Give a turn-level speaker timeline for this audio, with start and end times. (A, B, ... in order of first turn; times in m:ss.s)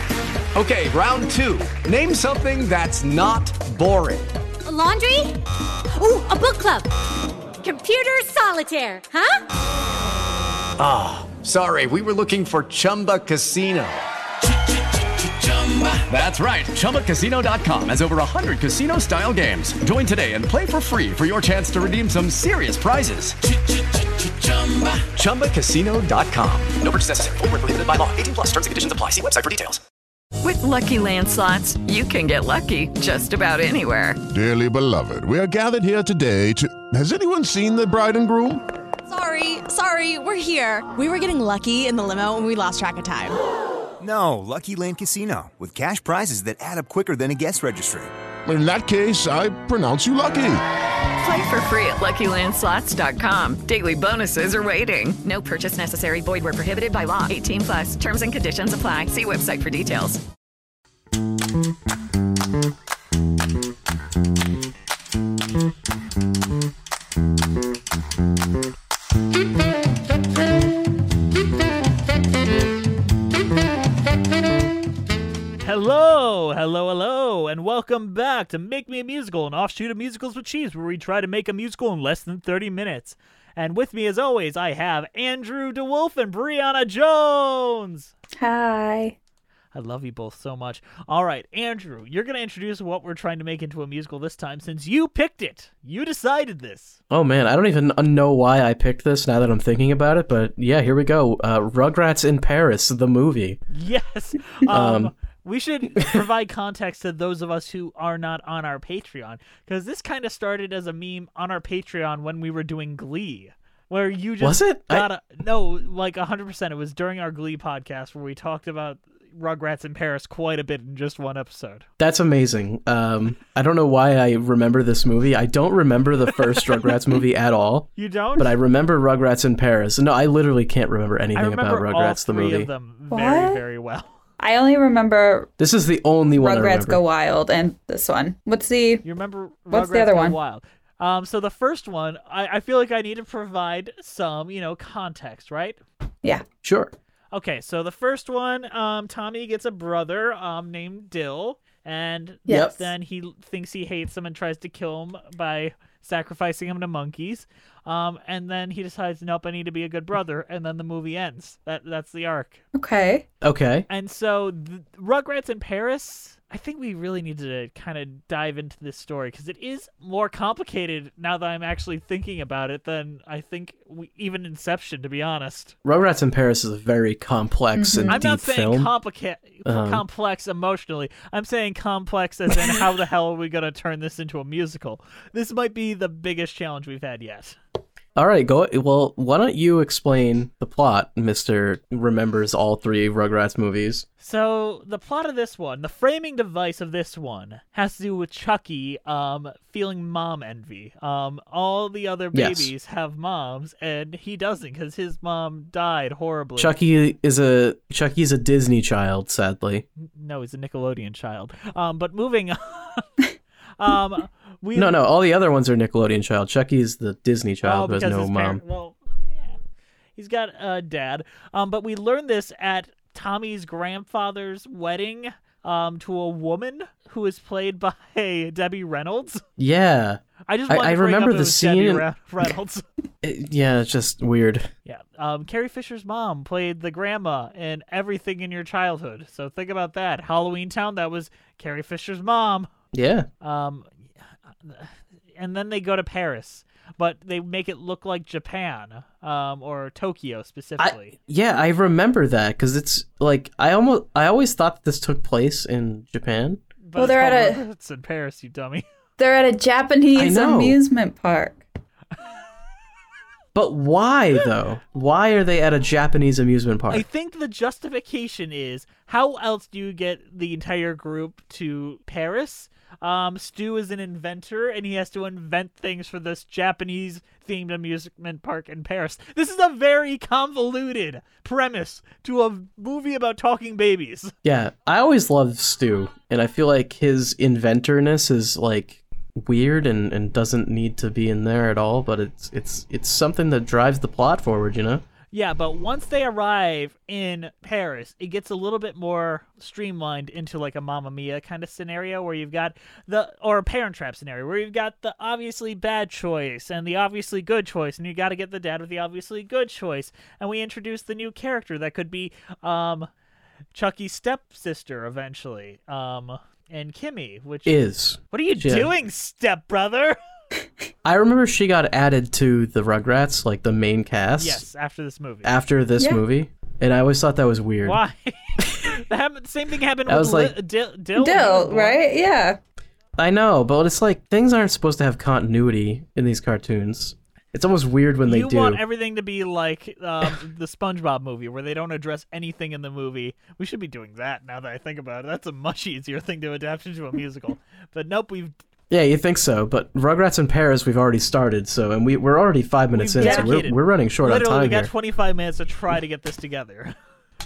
0:00.5-0:04.3 A
0:04.6-0:06.9 B
0:07.6-0:09.4 B
0:10.8-0:14.0 A
0:15.2-0:29.8 A
0:30.4-0:34.2 C
0:34.3-0:38.6 D
0:39.1-0:43.4 E
0:44.0-0:48.1 F
0:48.4-0:50.6 D
0:51.2-1:00.2 C
1:15.6-1:28.1 G
1:28.4-1:29.1 H
1:29.7-1:37.0 G
1:37.1-1:43.6 I
1:43.7-2:01.8 G
1:44.7-1:45.1 I
1:54.4-1:55.1 I
2:02.0-2:12.7 I
2:08.0-2:08.5 G
2:11.3-2:14.1 G
2:13.1-2:13.6 H
2:14.4-2:15.5 H
2:15.6-2:17.0 I
2:16.4-2:19.0 H
2:19.0-2:25.8 G
2:19.7-2:20.4 H
2:26.6-2:26.9 I
2:27.3-2:42.6 G
2:32.5-2:32.8 H
2:32.5-2:32.8 I
2:42.7-2:43.2 H
2:43.4-2:43.9 I
2:43.9-2:55.7 G
2:55.8-2:58.9 I
2:57.8-2:58.2 H
2:58.1-3:07.6 G
2:59.6-3:00.0 I
3:08.2-3:14.0 I
3:14.2-3:26.8 G
3:22.3-3:22.7 I
3:26.6-3:29.8 I
3:30.0-3:33.1 G
3:33.8-3:35.0 G
3:34.7-3:38.6 I
3:37.6-3:39.5 G
3:40.2-3:49.4 G
3:49.6-3:52.0 I
3:50.5-3:52.8 G
3:53.2-3:54.7 I
3:54.8-4:02.7 G
4:02.9-4:03.3 I
4:03.4-4:03.9 G
4:04.6-4:11.2 G
4:10.8-4:16.6 I
4:16.8-4:18.8 G
4:17.0-4:17.6 H
4:19.2-4:21.6 H
4:20.1-4:20.8 I
4:23.5-4:27.0 I
4:26.9-4:44.3 G
4:44.4-4:55.0 I
4:55.3-5:13.1 G
5:13.7-5:17.8 G
5:17.6-5:18.9 I
5:18.3-5:20.2 G
5:21.0-5:24.6 I
5:24.4-5:25.5 G
5:25.4-5:28.0 I
5:27.8-5:32.0 G
5:30.1-5:30.5 I
5:31.2-5:32.6 H
5:33.2-5:38.8 I
5:38.2-5:48.5 G
5:48.9-5:54.9 I
5:52.9-5:56.9 G
5:53.2-5:53.6 H